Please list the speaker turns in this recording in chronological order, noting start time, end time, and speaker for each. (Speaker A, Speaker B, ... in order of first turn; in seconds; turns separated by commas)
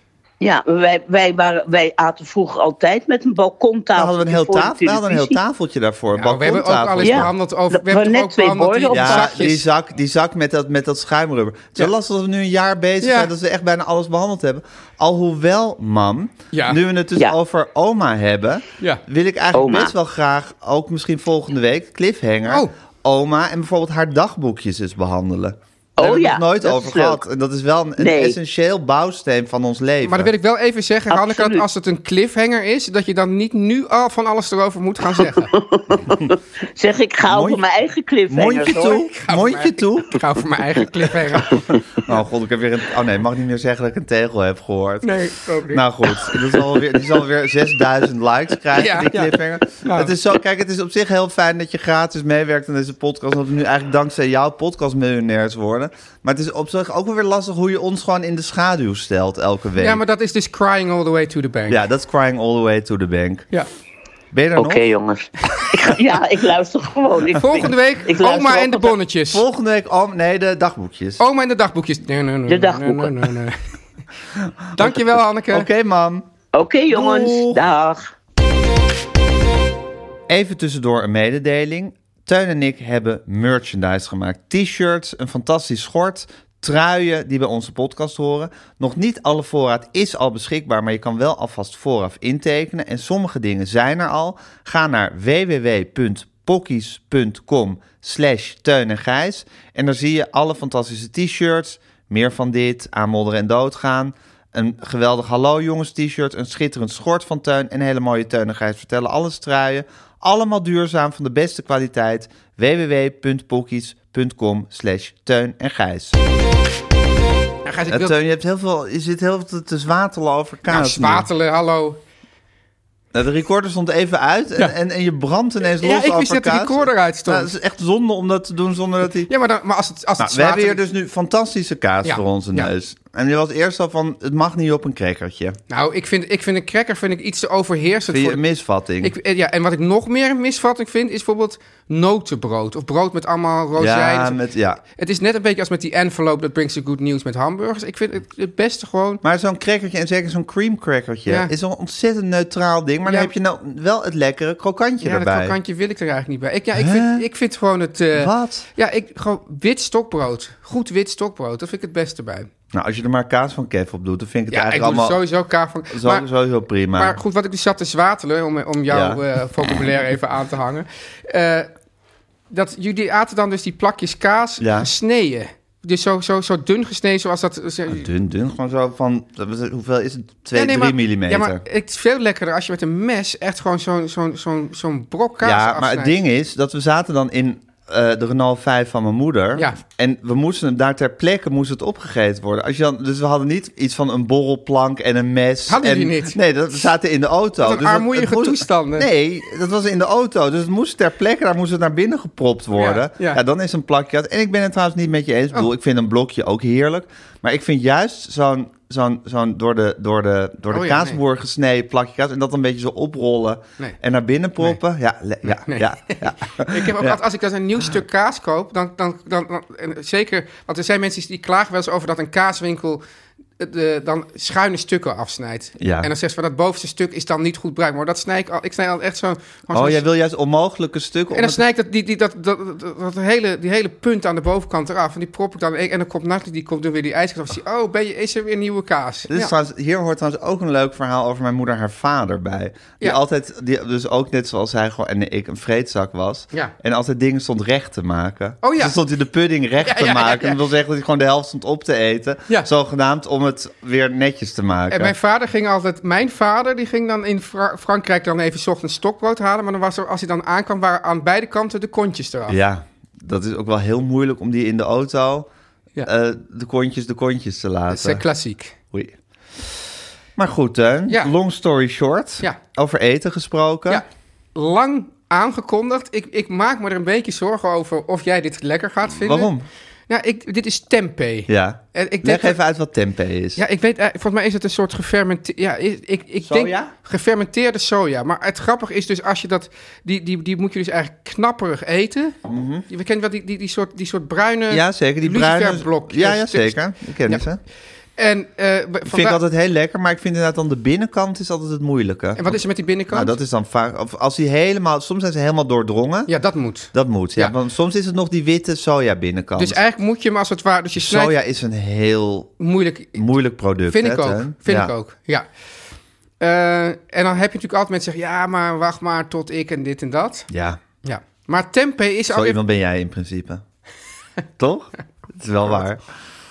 Speaker A: 0.4-5.4, Speaker B: 4.0-7.3, Speaker C: 6.1-9.6, Speaker A: 7.0-9.5, Speaker B: 8.9-30.3, Speaker C: 13.0-13.3, Speaker C: 16.5-16.8, Speaker A: 19.5-19.9, Speaker C: 22.5-22.7, Speaker A: 26.0-27.2, Speaker A: 28.0-28.4, Speaker C: 30.0-35.5, Speaker A: 31.1-31.6, Speaker A: 35.1-39.0, Speaker B: 37.3-37.6, Speaker B: 38.3-40.2, Speaker C: 39.0-42.1, Speaker B: 42.0-45.2, Speaker C: 45.0-46.6, Speaker B: 45.7-60.0, Speaker C: 48.7-50.1, Speaker C: 59.8-61.8, Speaker B: 61.7-63.5, Speaker B: 64.3-64.8, Speaker A: 64.5-69.0, Speaker C: 67.3-69.4, Speaker B: 69.3-71.2, Speaker C: 71.2-73.6, Speaker A: 72.5-73.3, Speaker B: 74.3-75.0, Speaker C: 74.8-75.7, Speaker B: 75.5-76.3, Speaker A: 76.5-78.1, Speaker B: 76.9-77.6, Speaker B: 80.3-116.2, Speaker C: 117.6-118.1, Speaker B: 117.9-121.3, Speaker C: 120.7-122.0, Speaker B: 123.1-129.3, Speaker C: 125.8-127.5, Speaker C: 129.3-130.8, Speaker B: 130.2-135.6, Speaker C: 132.0-132.7, Speaker C: 135.7-138.4, Speaker B: 138.1-139.1, Speaker C: 139.0-149.2, Speaker B: 143.8-144.8, Speaker B: 149.2-155.6, Speaker C: 151.3-151.5, Speaker C: 153.1-153.3, Speaker C: 155.0-162.5, Speaker B: 156.7-157.2, Speaker B: 158.1-158.7, Speaker B: 162.7-165.2, Speaker C: 164.5-166.3, Speaker B: 165.9-167.2, Speaker C: 166.9-171.7, Speaker B: 168.9-169.9, Speaker C: 172.5-178.1, Speaker B: 174.6-174.9, Speaker B: 177.9-181.6, Speaker C: 180.5-186.1, Speaker B: 185.4-217.2, Speaker C: 195.7-196.4, Speaker C: 197.6-199.1, Speaker C: 202.7-203.4, Speaker C: 210.7-211.2, Speaker C: 215.5-223.0, Speaker C: 223.6-230.0, Speaker B: 225.8-226.1, Speaker B: 229.7-231.6, Speaker C: 231.3-239.5, Speaker B: 239.3-255.1, Speaker C: 248.6-249.0, Speaker C: 249.8-250.6, Speaker C: 254.9-262.6, Speaker B: 262.5-265.5, Speaker B: 266.0-268.2, Speaker C: 267.9-268.7, Speaker B: 270.4-274.0, Speaker C: 271.1-271.3, Speaker C: 273.9-279.5, Speaker B: 279.1-279.6, Speaker C: 280.1-282.6, Speaker B: 281.5-283.6, Speaker C: 283.6-292.4, Speaker B: 286.4-286.9, Speaker B: 292.4-292.8, Speaker C: 292.9-297.4, Speaker B: 294.7-297.6, Speaker C: 298.2-299.4, Speaker B: 299.1-302.6, Speaker C: 302.4-303.4, Speaker B: 303.1-306.3, Speaker C: 306.3-307.5, Speaker B: 306.9-309.8, Speaker C: 309.6-311.3, Speaker B: 311.0-312.6, Speaker C: 312.6-313.2, Speaker B: 313.1-314.9, Speaker C: 313.9-315.4, Speaker C: 316.4-320.5, Speaker B: 320.5-320.8, Speaker C: 321.0-322.6, Speaker B: 322.3-323.6, Speaker B: 324.6-326.0